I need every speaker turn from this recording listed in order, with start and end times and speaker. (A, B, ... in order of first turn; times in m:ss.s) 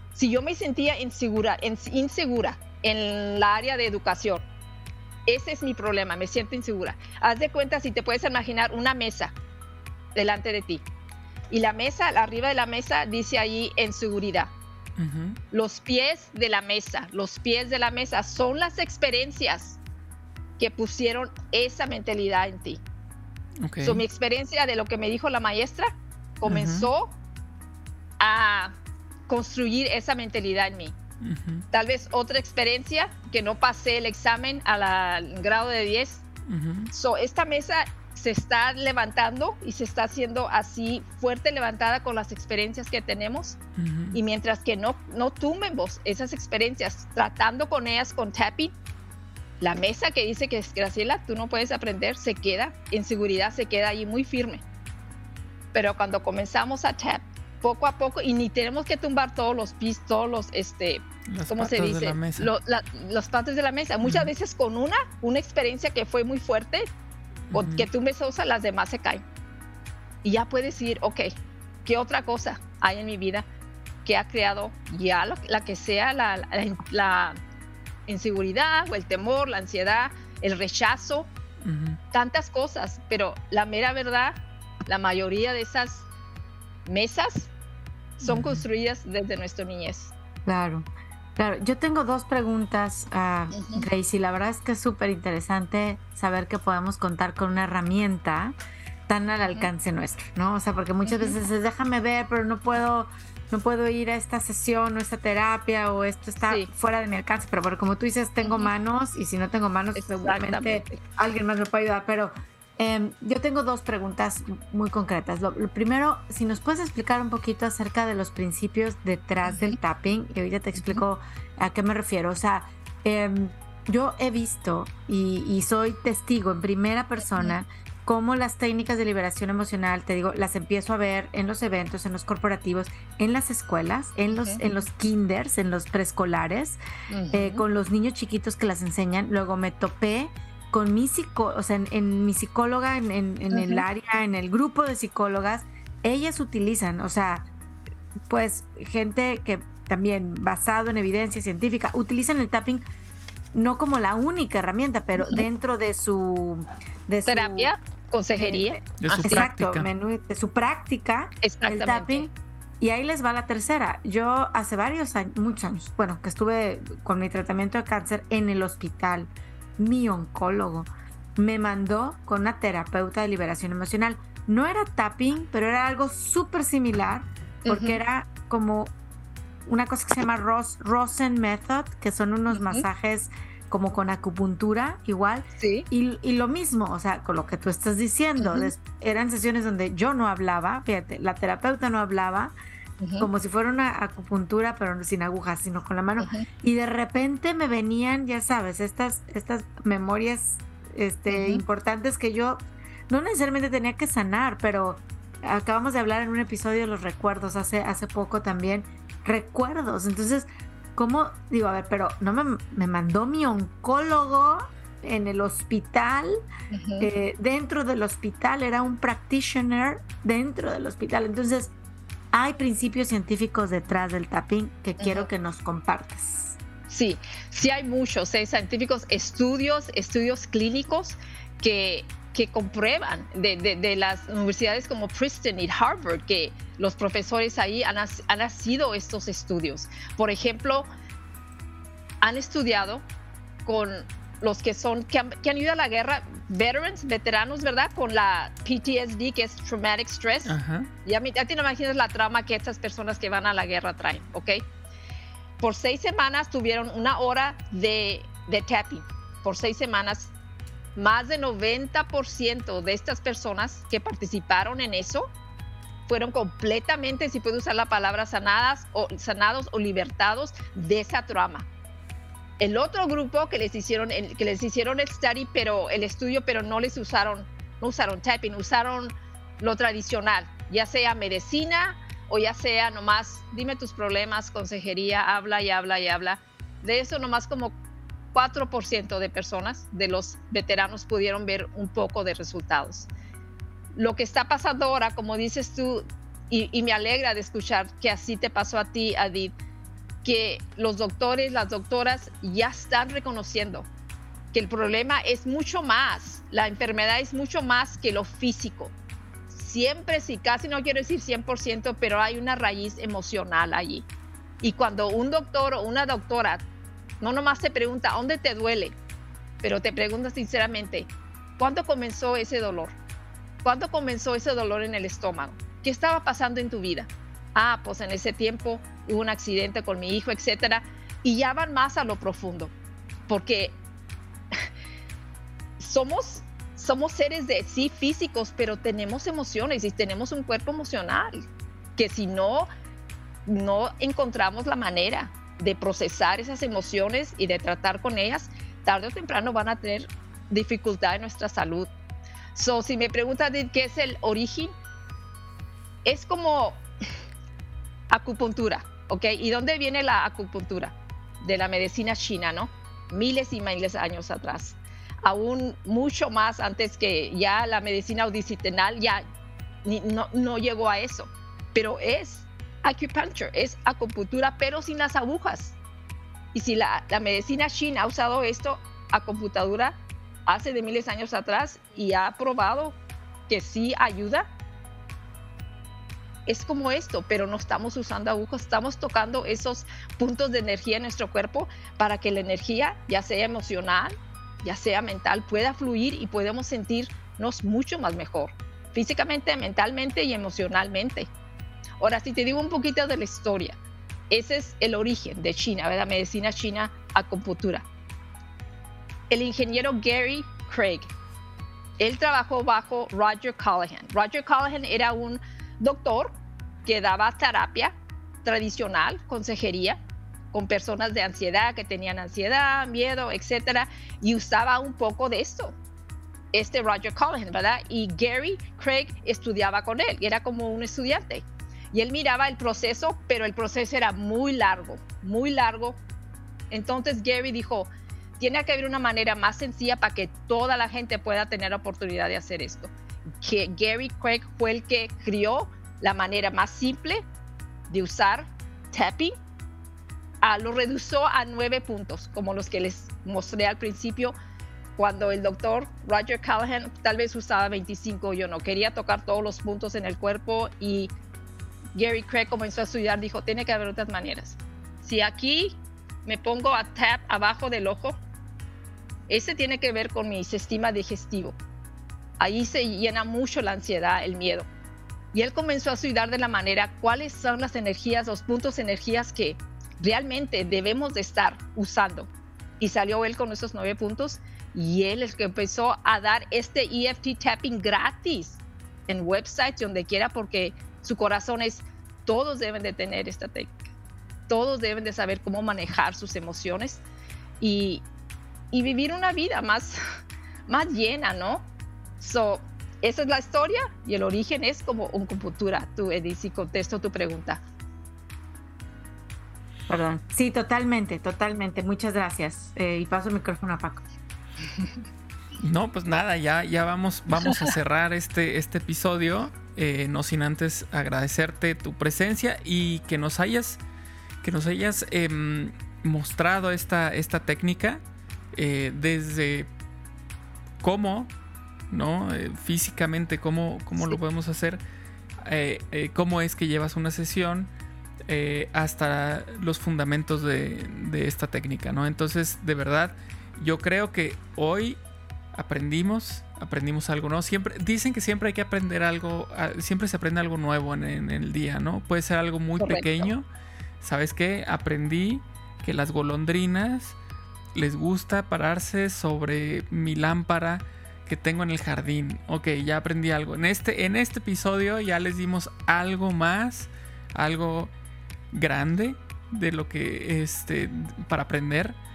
0:00.2-0:04.5 A
0:05.3-0:09.3 A
0:10.2-0:10.8 A
0:11.5-0:14.5 A
0:15.0-0:15.4 B
0:15.5-0:19.8 A
0:20.6-0:22.8 A
0:23.6-0:24.0 B
0:23.8-0:27.2 A
0:26.5-0:26.9 B
0:28.2-0:28.7 A
0:29.3-0:31.0 A
0:31.2-0:31.6 B
0:31.7-0:36.2 A
0:36.5-0:36.9 B
0:36.9-0:43.6 A
0:43.8-0:44.2 B
0:44.1-0:48.8 A
0:49.6-0:54.6 A
0:55.7-1:06.9 A
1:01.3-1:02.5 B
1:04.0-1:04.3 B
1:07.5-1:07.9 B
1:07.5-1:09.2 A
1:10.2-1:11.3 A
1:11.8-1:13.5 A
1:14.0-1:17.4 A
1:18.1-1:21.3 A
1:21.6-1:22.0 B
1:22.1-1:26.1 A
1:26.9-1:27.5 A
1:28.2-1:30.1 A
1:28.2-1:28.6 B
1:30.4-1:38.6 C
1:33.6-1:33.9 A
1:39.1-2:16.8 C
1:41.0-1:41.4 A
1:46.4-1:46.7 A
1:48.4-1:48.7 A
1:50.0-1:51.0 A
1:59.4-1:59.8 A
2:00.8-2:01.0 A
2:14.3-2:14.6 A
2:17.1-2:17.6 A
2:17.3-2:27.5 C
2:23.5-2:23.8 A
2:28.3-2:32.8 C
2:33.5-2:37.7 C
2:35.2-2:35.4 A
2:37.3-2:39.5 A
2:38.4-2:58.9 C
2:39.0-2:39.9 B
2:41.4-2:42.3 A
2:57.7-2:58.0 A
2:59.7-3:12.5 C
3:02.5-3:02.8 A
3:05.6-3:05.9 A
3:08.4-3:08.7 A
3:13.0-3:13.3 A
3:13.2-3:36.4 C
3:16.2-3:16.5 A
3:21.3-3:21.6 A
3:36.7-3:37.1 A
3:37.0-3:41.7 C
3:42.3-3:46.6 C
3:45.0-3:45.3 A
3:46.9-4:00.9 A
4:02.2-4:03.1 A
4:03.7-4:14.7 A
4:10.5-4:10.9 B
4:15.6-4:20.3 A
4:21.0-4:25.3 A
4:26.1-4:31.7 A
4:32.6-4:47.8 A
4:48.3-4:53.1 A
4:53.9-4:59.6 A
5:00.2-5:03.9 A
5:04.5-5:08.9 A
5:09.5-5:14.1 A
5:14.6-5:16.6 A
5:17.2-5:19.0 A
5:19.6-5:23.0 A
5:23.6-5:32.7 A
5:33.3-5:33.8 A
5:35.8-5:41.4 A
5:42.0-5:42.7 A
5:43.5-5:51.9 A
5:52.5-5:54.7 A
5:56.0-5:56.8 A
5:58.1-6:09.2 A
6:09.8-6:15.8 A
6:16.5-6:23.0 A
6:23.5-6:24.5 A
6:26.5-6:41.3 A
6:42.0-6:43.8 A
6:44.3-6:47.9 A
6:49.3-6:51.1 A
6:52.0-7:00.0 A
7:00.5-7:05.8 A
7:06.5-7:16.0 A
7:16.7-7:27.2 A
7:27.9-7:29.4 A
7:30.4-7:34.4 A
7:35.0-7:41.1 A
7:42.0-7:48.2 A
7:49.3-7:51.6 A
7:52.4-7:54.7 A
7:55.3-8:13.8 A
8:14.5-8:17.0 A
8:17.6-8:18.0 A
8:18.7-8:20.0 A
8:20.7-8:21.7 A
8:22.2-8:27.6 A
8:29.9-8:34.0 C
8:35.6-8:43.8 B
8:44.4-8:48.0 B
8:48.5-8:49.7 B
8:50.8-8:51.3 B
8:51.9-8:54.8 B
8:55.4-8:57.7 B
8:58.3-9:05.0 B
9:05.5-9:13.5 B
9:12.8-9:13.3 A
9:14.0-9:17.2 B
9:17.7-9:27.9 B
9:28.5-9:32.0 B